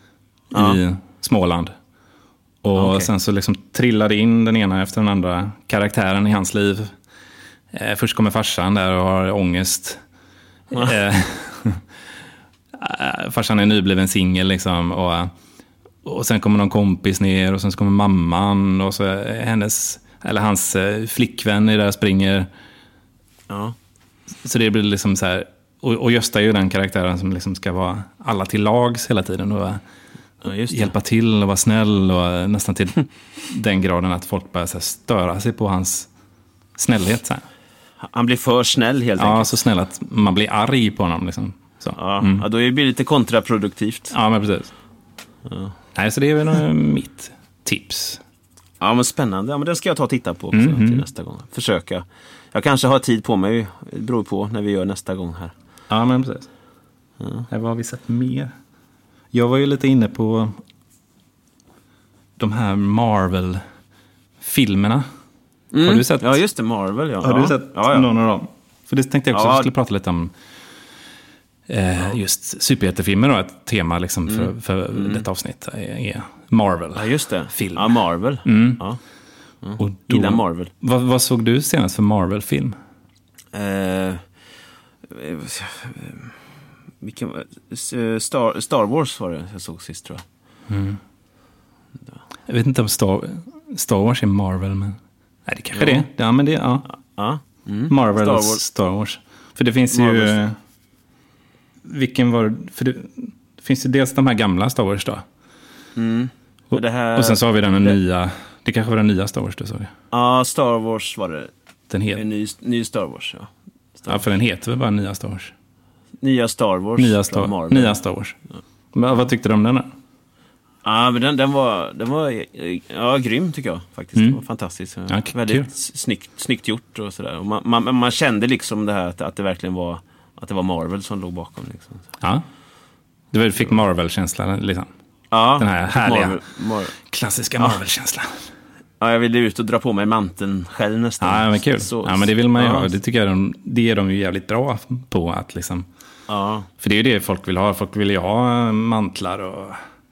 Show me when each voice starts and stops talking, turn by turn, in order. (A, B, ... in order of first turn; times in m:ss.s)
0:00.5-0:01.7 A
0:00.5-0:00.8 B
0:02.6-0:06.9 A
0:02.8-0:03.1 B
0:07.7-0:10.0 A
0:10.7-0:11.8 A
0:12.7-0:15.3 A
0:16.0-0:22.5 A
0:23.5-0:23.7 B
0:24.4-0:29.8 A
0:30.4-0:30.9 B
0:30.7-0:36.1 A
0:36.8-0:37.4 A
0:38.0-0:39.5 B
0:39.2-0:42.4 A
0:41.9-0:44.1 B
0:44.1-0:44.7 A
0:45.4-0:45.7 B
0:45.9-0:48.2 A
0:48.8-0:55.5 B
0:50.5-0:51.0 A
0:55.9-0:56.5 A
0:57.2-0:57.5 B
0:57.5-0:58.5 A
0:59.3-1:00.6 A
1:02.4-1:03.6 A
1:04.4-1:05.0 A
1:05.7-1:08.1 B
1:05.8-1:06.4 A
1:07.2-1:10.3 A
1:09.3-1:09.7 B
1:11.7-1:18.8 A
1:14.3-1:15.2 B
1:17.0-1:19.0 B
1:19.6-1:20.7 B
1:19.8-1:22.8 A
1:23.5-1:24.2 B
1:25.1-1:26.3 B
1:27.0-1:30.2 B
1:30.7-1:31.0 A
1:32.5-1:36.8 A
1:35.7-1:36.0 B
1:37.2-1:38.6 B
1:37.9-1:40.6 A
1:39.9-1:40.4 B
1:41.8-1:45.2 A
1:46.0-1:48.0 B
1:46.7-1:49.9 A
1:50.1-1:51.5 B
1:51.9-1:52.2 A
1:52.1-1:54.2 B
1:54.1-1:55.5 A
1:56.2-1:58.0 B
1:57.0-1:58.4 A
1:58.9-1:59.9 A
2:00.8-2:12.0 B
2:05.1-2:05.7 A
2:13.3-2:14.9 A
2:15.3-2:16.9 B
2:15.6-2:16.4 A
2:16.9-2:18.4 A
2:19.0-2:22.9 B
2:21.2-2:25.9 A
2:26.3-2:26.7 B
2:26.8-2:29.8 A